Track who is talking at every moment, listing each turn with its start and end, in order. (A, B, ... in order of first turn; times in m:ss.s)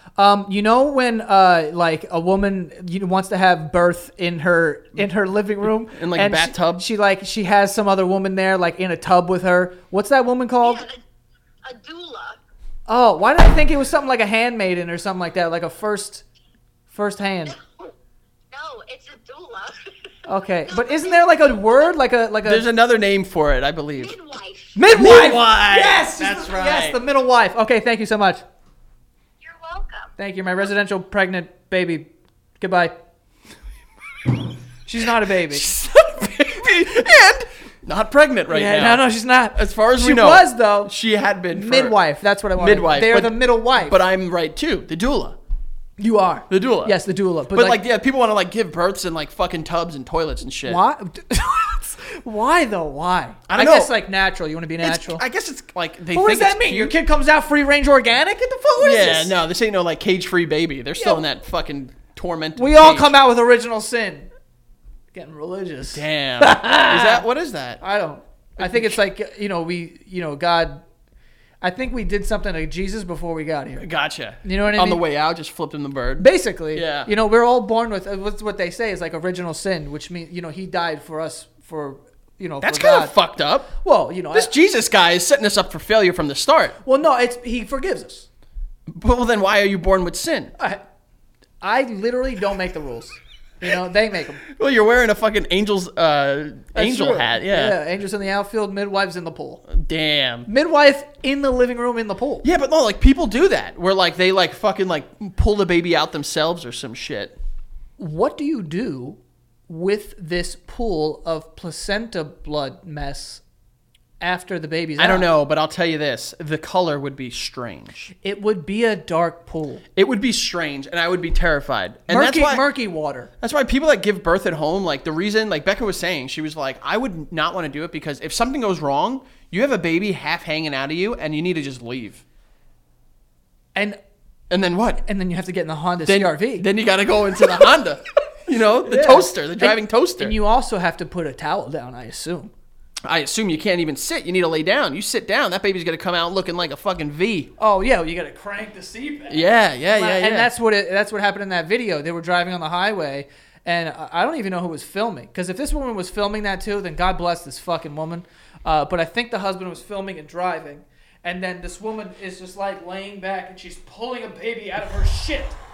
0:00.2-0:10.8 A
0:05.9-0:06.8 B
0:10.6-0:11.0 C
0:11.6-0:12.4 C
0:12.9-0:16.2 A
0:16.9-0:17.6 A
0:18.5-0:19.9 C
0:20.3-0:22.6 A
0:20.7-0:21.8 C
0:22.4-0:24.2 B
0:24.0-0:24.8 C
0:24.8-0:28.4 A
0:24.9-0:27.0 B
0:29.4-0:30.1 C
0:30.2-0:33.0 A
0:34.9-0:35.7 A
0:35.5-0:42.0 B
0:38.5-0:40.9 A
0:41.5-0:44.0 A
0:42.6-0:45.4 B
0:46.0-0:47.8 A
0:46.5-0:47.0 B
0:47.5-0:50.8 B
0:50.6-0:55.2 A
0:53.5-0:54.0 B
0:54.8-0:57.0 B
0:56.1-0:59.3 A
0:58.8-1:03.2 B
1:01.0-1:01.2 A
1:02.6-1:04.3 A
1:05.1-1:07.3 A
1:05.9-1:07.8 B
1:07.8-1:10.8 A
1:08.6-1:09.0 B
1:11.6-1:13.9 A
1:13.8-1:17.1 B
1:14.4-1:15.0 A
1:16.2-1:23.1 A
1:22.6-1:23.7 B
1:23.8-1:24.5 A
1:24.3-1:26.8 B
1:26.8-1:28.3 A
1:28.9-1:30.6 B
1:31.6-1:34.4 A
1:34.4-1:37.8 B
1:36.8-1:39.6 A
1:39.7-1:40.5 B
1:40.5-1:42.5 A
1:42.4-1:47.4 B
1:48.0-1:53.4 A
1:54.2-1:55.3 A
1:55.0-1:58.1 B
1:58.2-1:59.8 A
2:00.0-2:02.7 B
2:02.1-2:03.3 A
2:03.4-2:12.2 B
2:14.5-2:15.0 B
2:15.0-2:16.7 A
2:16.1-2:20.4 B
2:18.8-2:22.5 A
2:23.0-2:27.5 B
2:27.6-2:45.6 A
2:29.3-2:30.5 B